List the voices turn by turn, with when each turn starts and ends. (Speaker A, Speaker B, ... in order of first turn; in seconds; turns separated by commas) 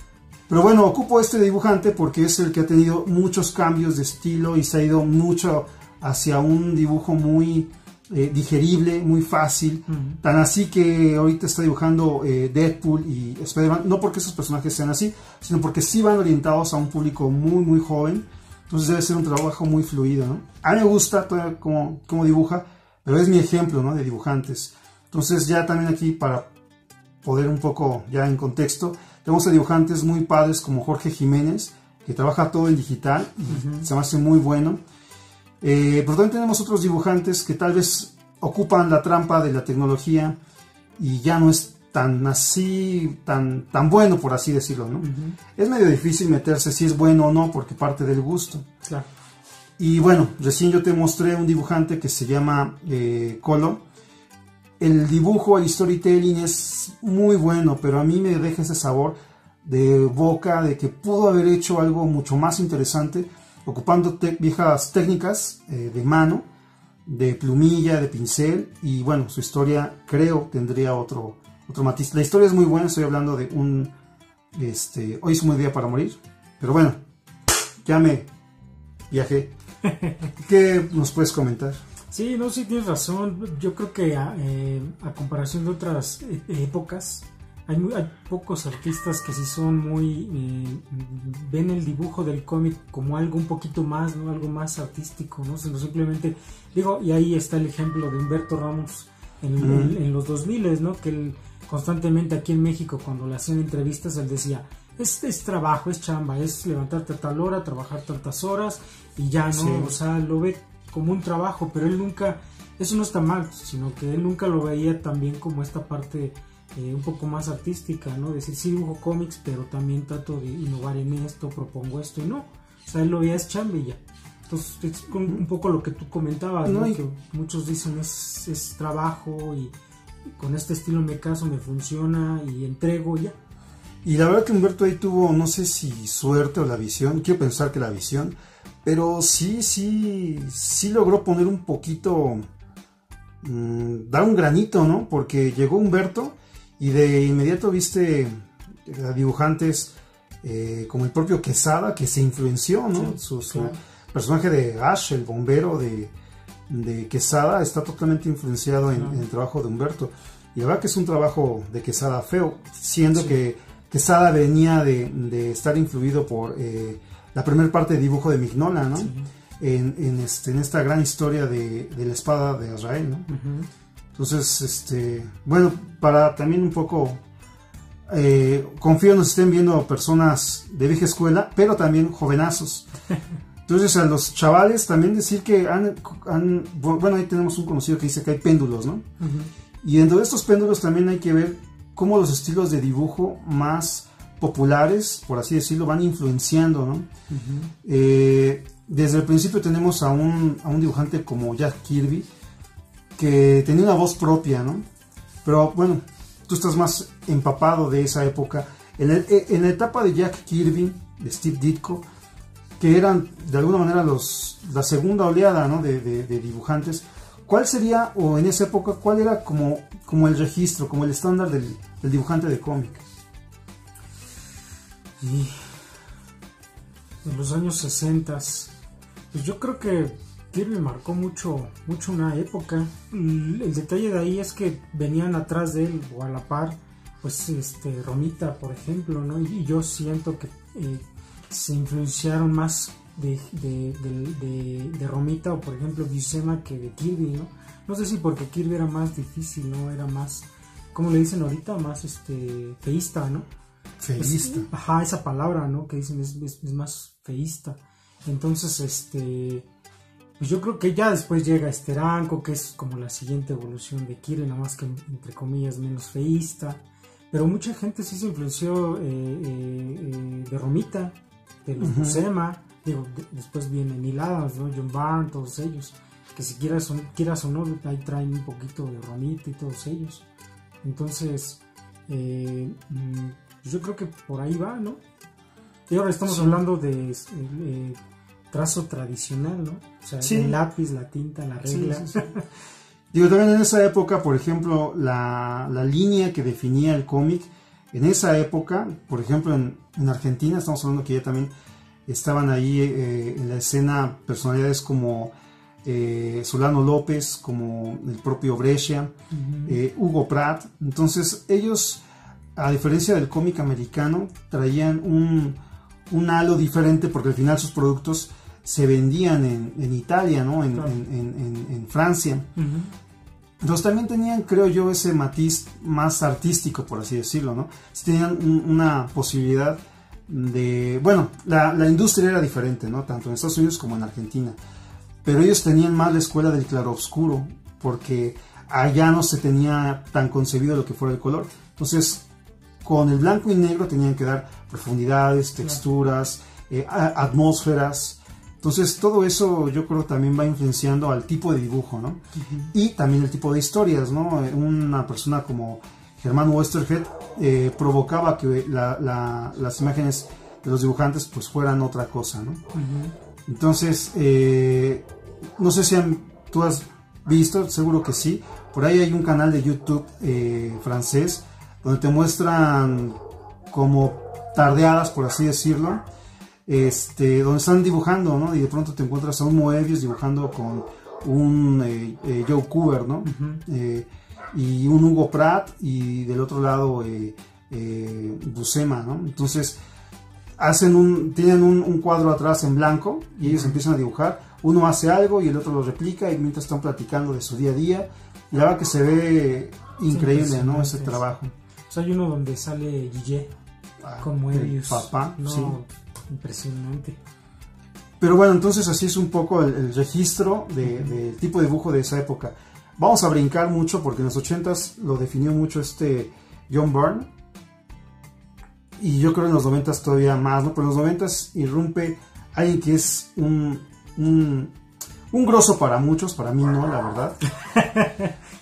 Speaker A: 0.5-26.5, Speaker B: 9.9-10.2, Speaker A: 27.2-34.8, Speaker B: 33.5-33.9, Speaker A: 35.6-40.4, Speaker A: 41.0-48.6, Speaker B: 45.0-45.4, Speaker A: 49.8-53.8, Speaker A: 54.8-66.5, Speaker A: 67.0-73.9, Speaker A: 74.5-77.0, Speaker A: 77.8-78.3, Speaker A: 79.1-79.5, Speaker B: 79.8-80.3, Speaker A: 80.4-81.8, Speaker B: 82.1-129.7, Speaker A: 99.6-100.0, Speaker A: 109.5-110.0, Speaker A: 126.6-127.0, Speaker B: 130.4-133.3, Speaker A: 134.0-142.4, Speaker A: 143.4-156.1, Speaker B: 152.9-153.8, Speaker A: 156.7-173.3, Speaker B: 158.9-159.2, Speaker B: 169.0-169.3, Speaker B: 173.3-173.7, Speaker A: 174.2-177.2, Speaker A: 178.1-182.9, Speaker A: 183.7-189.1, Speaker B: 189.2-189.5, Speaker A: 189.8-197.1, Speaker B: 197.3-197.7, Speaker A: 197.8-202.3, Speaker A: 203.2-204.8, Speaker A: 205.4-212.0, Speaker A: 212.8-223.0, Speaker B: 225.2-225.7, Speaker B: 227.2-228.7, Speaker B: 229.3-253.4, Speaker A: 254.0-254.7, Speaker B: 254.2-259.6, Speaker B: 260.4-280.2, Speaker A: 271.8-272.2, Speaker B: 280.8-285.0, Speaker B: 285.9-288.0, Speaker A: 286.3-286.6, Speaker B: 288.5-292.4, Speaker A: 290.2-290.6, Speaker A: 291.6-292.3, Speaker A: 293.1-301.5, Speaker A: 302.1-305.3, Speaker A: 305.8-309.1, Speaker B: 309.3-309.8, Speaker A: 309.6-312.0, Speaker A: 312.6-315.6, Speaker A: 316.1-322.5, Speaker B: 320.7-321.0, Speaker B: 322.6-322.9, Speaker A: 323.6-334.6, Speaker A: 335.2-342.2, Speaker A: 342.8-352.2, Speaker B: 352.4-352.7, Speaker A: 352.7-362.6, Speaker B: 362.7-363.1, Speaker A: 363.4-365.1, Speaker A: 365.6-376.0, Speaker A: 376.7-389.8, Speaker B: 383.2-383.6, Speaker A: 390.6-401.5, Speaker B: 393.4-393.8, Speaker B: 400.1-401.3, Speaker B: 401.9-403.5, Speaker A: 404.0-405.8, Speaker B: 404.2-407.2, Speaker A: 408.2-417.3, Speaker B: 410.8-411.2, Speaker A: 419.0-424.7, Speaker A: 425.3-427.4, Speaker B: 427.7-428.3